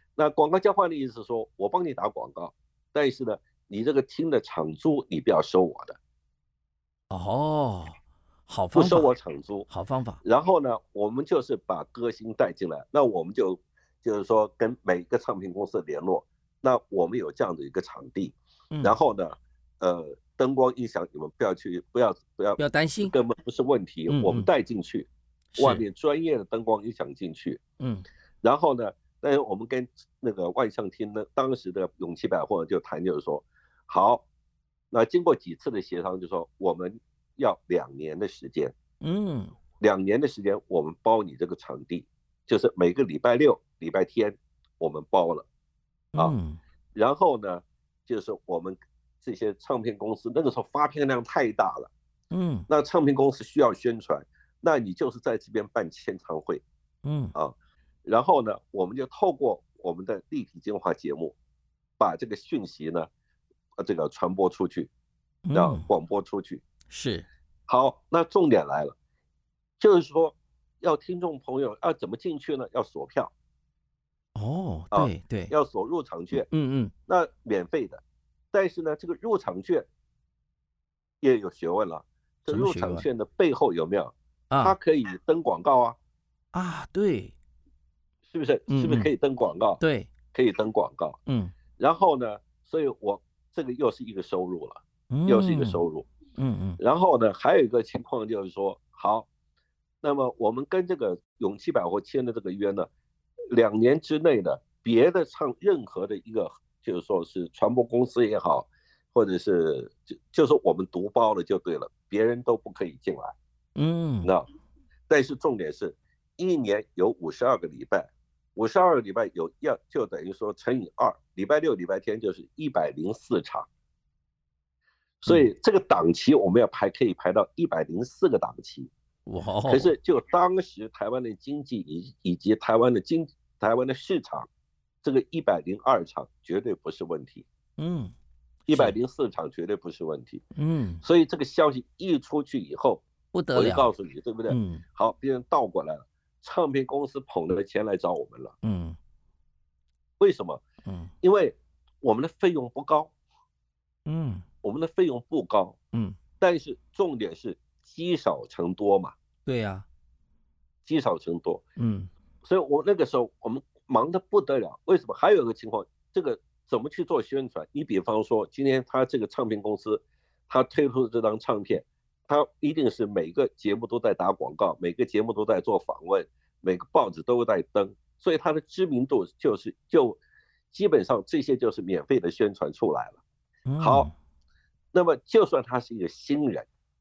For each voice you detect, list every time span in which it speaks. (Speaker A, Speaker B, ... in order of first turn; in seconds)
Speaker A: 0.2-6.0, 8.7-9.7, 10.2-27.6, 28.4-34.2, 34.9-38.8, 39.8-45.5, 46.9-51.9, 52.7-56.6, 58.0-61.4, 62.0-63.1, 63.8-64.9, 65.5-66.6, 67.7-69.0, 69.8-73.3, 74.9-76.5, 77.1-79.9, 81.2-86.0, 88.3-89.8, 90.3-91.2, 91.8-96.1, 96.8-99.3, 100.0-102.9, 103.5-113.3, 115.1-123.7, 125.2-128.9, 129.7-134.5, 135.0-137.5, 138.7-140.4, 141.0-148.6, 150.2-150.6, 151.2-153.1, 154.6-155.8, 156.4-159.2, 160.8-161.6, 162.4-180.2, 180.7-183.2, 183.8-184.1, 184.9-186.7
Speaker B: 7.1-9.1, 9.7-10.2, 22.6-23.1, 24.1-24.5, 25.5-25.9, 27.8-28.1, 39.0-39.5, 46.1-46.6, 52.3-52.7, 57.0-57.3, 65.5-65.8, 66.9-67.3, 74.3-75.5, 76.3-76.9, 82.5-83.1, 84.5-84.8, 86.5-87.3, 88.7-89.1, 89.8-90.1, 91.3-91.5, 95.1-95.8, 96.4-96.8, 113.8-114.3, 129.3-129.9, 137.8-138.2, 138.7-138.9, 140.6-141.0, 143.3-143.9, 144.5-144.8, 148.6-149.0, 150.8-151.1, 154.1-154.4, 159.5-159.9, 161.8-162.1, 183.7-184.1